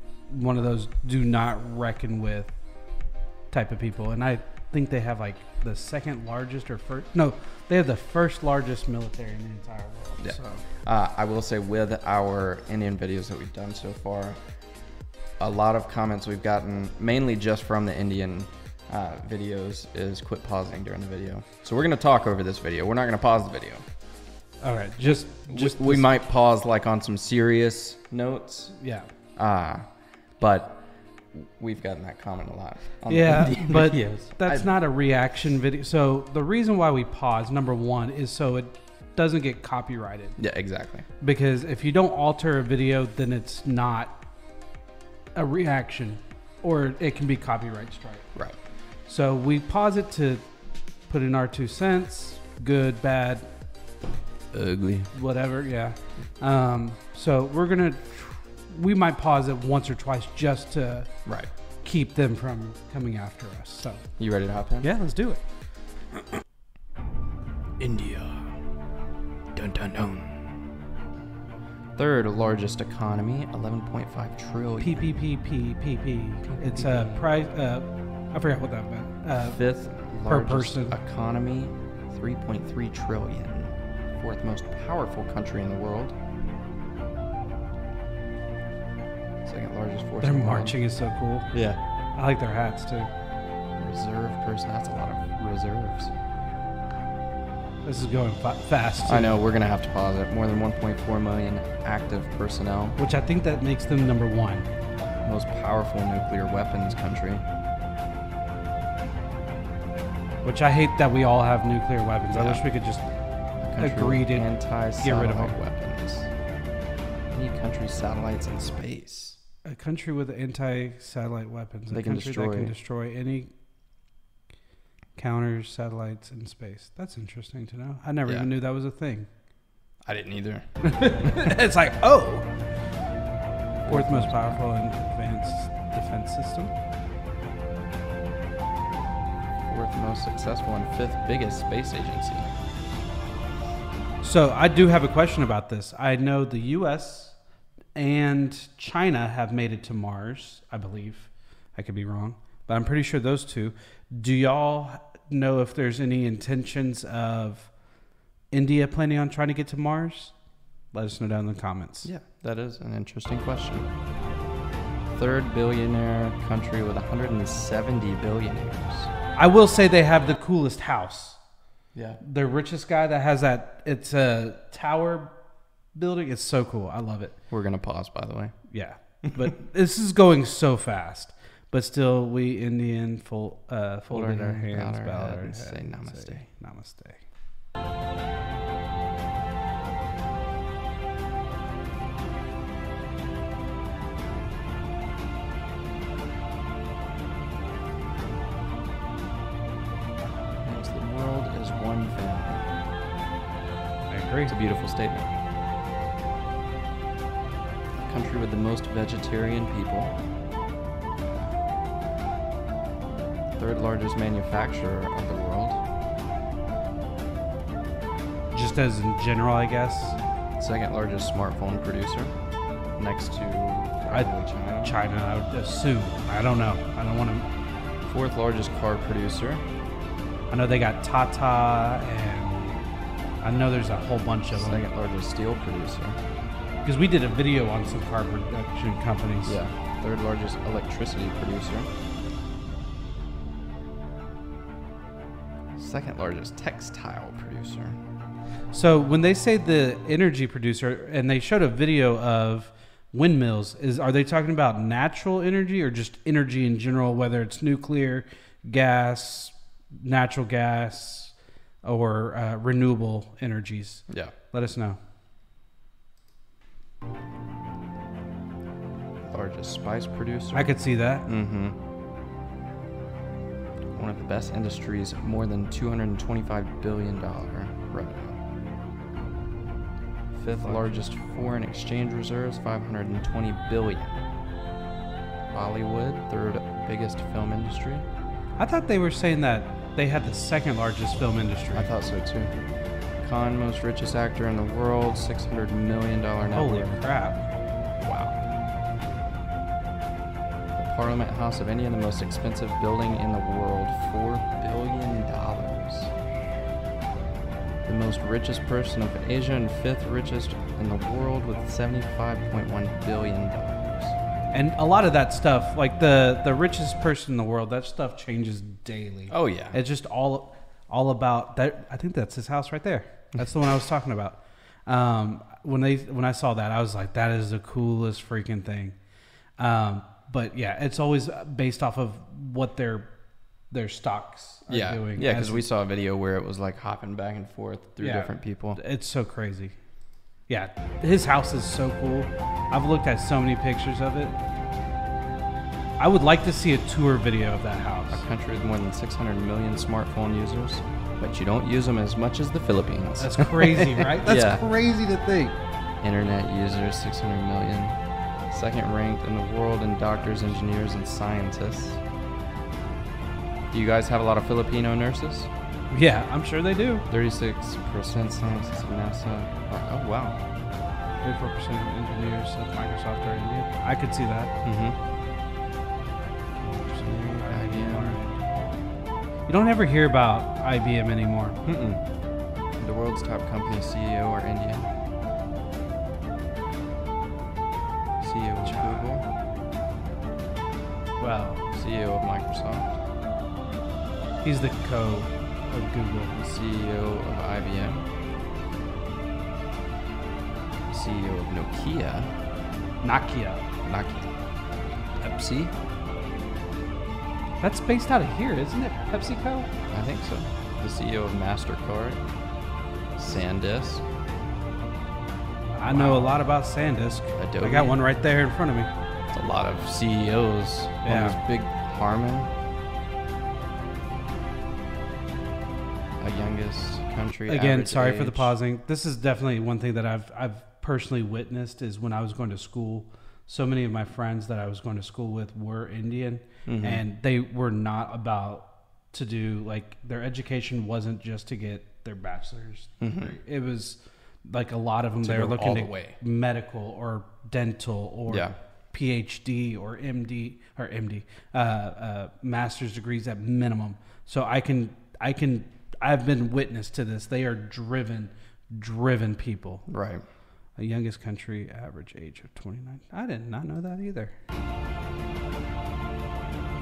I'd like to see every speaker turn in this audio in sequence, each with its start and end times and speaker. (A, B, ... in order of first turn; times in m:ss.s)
0:00.3-0:02.5 A
0:03.5-0:10.6 A
0:10.2-0:14.4 B
0:15.4-0:23.8 B
0:24.6-0:26.1 A
0:25.1-0:28.8 B
0:28.8-0:29.1 A
0:29.4-0:34.7 B
0:33.1-0:40.4 A
0:40.4-0:41.0 B
0:41.2-0:44.2 A
0:45.3-0:48.3 A
0:49.0-0:50.4 A
0:51.1-0:53.5 A
0:54.5-0:55.1 B
0:55.1-1:01.2 A
1:01.2-1:01.5 B
1:01.8-1:04.1 A
1:04.2-1:04.9 B
1:04.8-1:05.4 A
1:07.8-1:08.6 B
1:09.5-1:10.5 B
1:12.0-1:15.1 B
1:14.8-1:19.6 A
1:16.5-1:17.2 B
1:19.4-1:26.1 B
1:20.2-1:21.0 A
1:29.4-1:30.8 B
1:30.2-1:31.5 A
1:31.5-1:31.8 B
1:32.2-1:33.1 A
1:33.8-1:36.1 B
1:37.8-1:39.4 A
1:39.0-1:43.0 B
1:43.0-1:44.7 A
1:45.2-1:47.4 B
1:50.4-1:53.0 A
1:52.3-1:52.6 B
1:53.6-1:56.3 B
1:53.8-1:55.6 A
1:57.3-1:59.4 B
1:59.6-2:03.5 A
2:01.9-2:02.7 B
2:05.2-2:09.3 A
2:10.0-2:10.7 B
2:10.8-2:12.5 A
2:13.8-2:16.7 A
2:13.8-2:14.6 B
2:19.6-2:22.5 B
2:24.2-2:27.4 A
2:27.9-2:37.7 A
2:38.5-2:40.3 A
2:40.9-2:42.1 A
2:42.0-2:43.9 B
2:45.1-2:49.1 B
2:49.4-2:51.4 A
2:51.9-2:52.2 B
2:52.2-2:55.4 A
2:55.9-2:57.4 A
2:57.5-2:58.5 B
2:58.7-3:07.2 A
3:04.1-3:06.4 B
3:20.6-3:22.7 B
3:24.1-3:24.5 A
3:24.5-3:25.3 B
3:27.9-3:30.2 B
3:33.6-3:35.8 B
3:38.5-3:40.2 A
3:40.6-3:42.3 B
3:43.0-3:45.0 B
3:44.8-3:47.4 A
3:48.0-3:49.6 B
3:50.5-3:52.8 A
3:53.4-3:54.8 A
3:54.5-3:56.2 B
3:56.8-3:59.6 A
3:59.4-4:01.9 B
4:05.8-4:08.0 B
4:08.7-4:25.0 A
4:24.1-4:24.3 B
4:29.3-4:31.8 B
4:30.5-4:31.3 A
4:33.9-4:38.4 B
4:40.3-4:44.2 B
4:40.6-4:40.9 A
4:45.5-4:48.0 B
4:48.6-4:51.9 A
4:51.7-4:52.5 B
4:53.2-4:57.0 B
4:56.4-4:57.5 A
4:58.0-4:58.4 B
5:00.8-5:06.1 B
5:07.8-5:14.2 B
5:14.5-5:29.0 A
5:19.3-5:19.8 B
5:29.6-5:33.1 A
5:33.7-5:35.6 A
5:34.7-5:38.8 B
5:38.0-5:39.7 A
5:40.5-5:44.4 A
5:46.0-5:48.2 A
5:48.1-5:54.6 B
5:53.2-5:55.6 A
5:56.0-5:58.0 B
5:58.5-6:02.0 B
6:03.7-6:05.5 B
6:05.9-6:07.0 A
6:07.1-6:10.4 B
6:11.2-6:14.5 A
6:14.6-6:15.0 B
6:16.6-6:18.4 A
6:17.0-6:18.2 B
6:19.5-6:21.6 A
6:21.6-6:22.0 B
6:22.8-6:24.9 B
6:28.2-6:29.2 B
6:28.6-6:29.1 A
6:31.2-6:31.6 A
6:31.7-6:33.0 B
6:34.4-6:36.5 A
6:36.4-6:38.0 B
6:40.9-6:42.3 B
6:43.0-6:43.6 A
6:43.8-6:44.3 B
6:45.2-6:45.7 B
6:47.6-6:49.7 A
6:49.9-6:52.2 B
6:53.2-6:54.0 B
6:55.7-6:58.9 A
6:55.9-6:56.4 B
6:57.3-6:58.0 B
6:59.3-7:02.5 B
7:01.0-7:01.4 A
7:06.2-7:08.5 B
7:07.5-7:39.8 A
7:16.6-7:17.0 B
7:23.0-7:23.4 B
7:25.2-7:26.2 B
7:28.3-7:28.6 B
7:39.9-7:40.2 B
7:40.8-7:44.3 A